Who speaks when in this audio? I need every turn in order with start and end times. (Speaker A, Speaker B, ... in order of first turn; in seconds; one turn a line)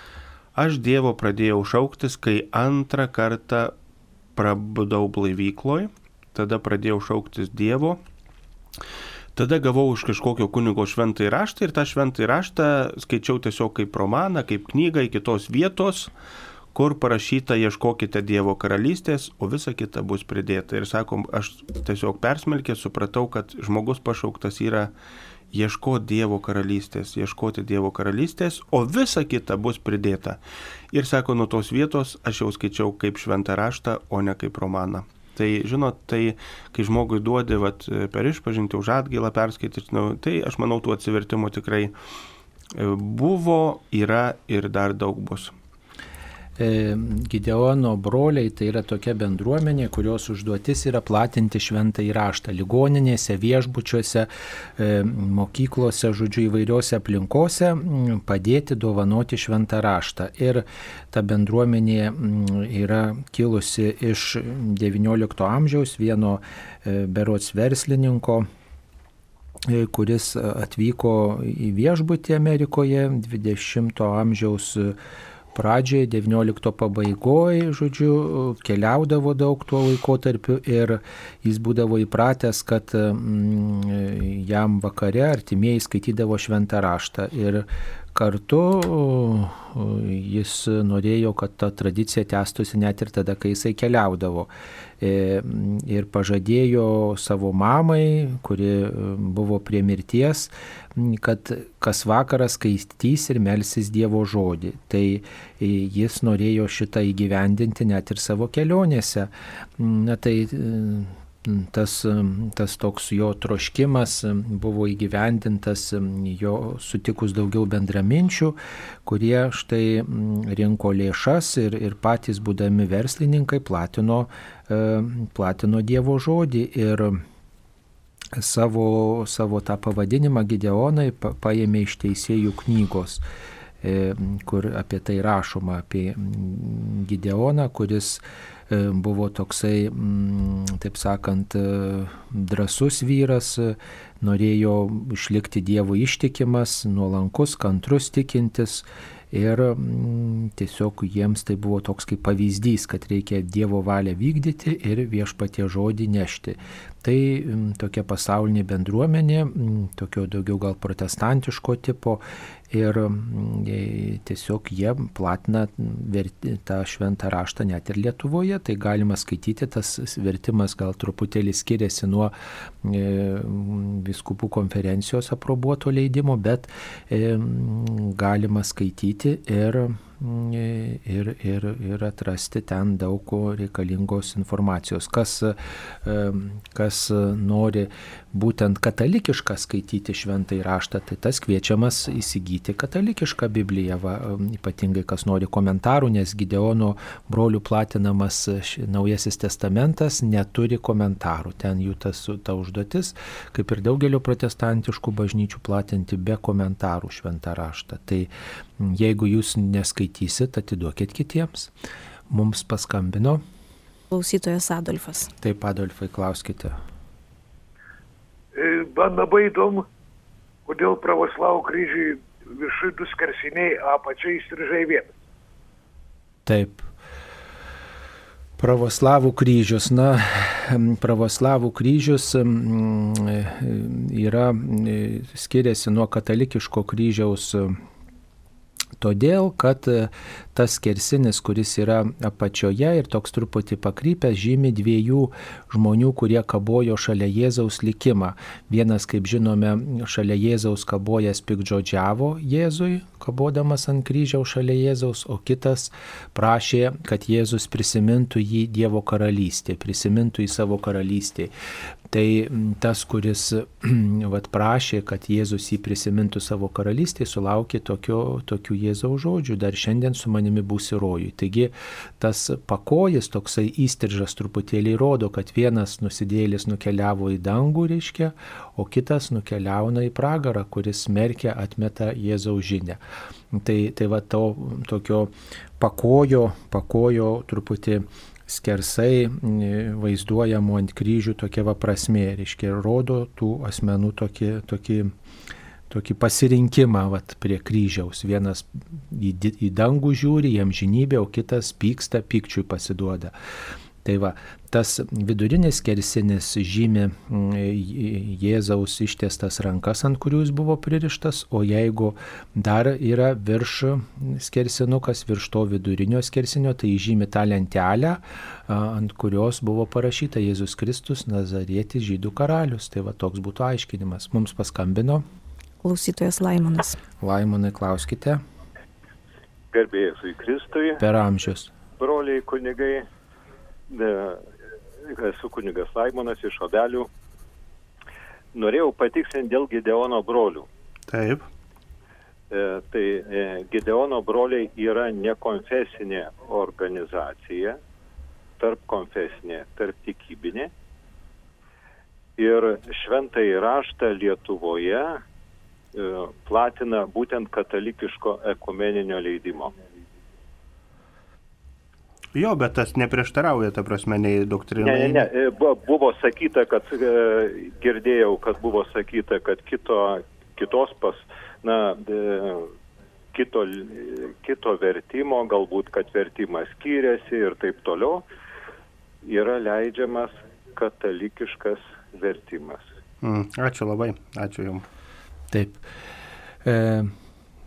Speaker A: 0.5-3.7
Speaker A: 4.3-8.0
Speaker A: 9.3-16.1
Speaker A: 16.7-24.9
Speaker A: 25.5-30.4
Speaker A: 30.9-41.9
Speaker A: 42.7-45.5
Speaker B: 46.6-68.5
Speaker B: 69.7-75.0
Speaker B: 75.5-94.5
Speaker B: 95.0-127.2
Speaker B: 128.3-133.2
Speaker B: 133.8-211.7
Speaker B: 212.3-213.4
Speaker C: 214.1-215.3
Speaker B: 215.4-216.8
Speaker D: 218.5-219.8
Speaker D: 220.7-225.1
Speaker B: 226.4-226.8
Speaker B: 228.6-237.8
Speaker B: 239.0-261.5
Speaker B: 262.1-283.0
Speaker B: 283.5-295.1
Speaker B: 295.9-303.3
Speaker B: 304.0-325.2
Speaker C: 325.8-327.0
Speaker B: 327.2-328.4
Speaker E: 329.7-331.0
Speaker B: 331.0-331.7
Speaker E: 332.0-333.0
Speaker E: 333.9-334.4
Speaker E: 335.1-337.1
Speaker E: 338.5-340.7
Speaker A: 341.1-341.4
Speaker E: 342.5-347.8
Speaker E: 348.6-350.7
Speaker E: 352.4-355.2
Speaker E: 355.9-359.7
Speaker A: 362.3-365.3
Speaker E: 364.8-372.7
Speaker E: 373.3-378.2
Speaker E: 379.2-382.8
Speaker A: 383.2-384.8
Speaker B: 385.5-385.8
Speaker B: 386.6-387.1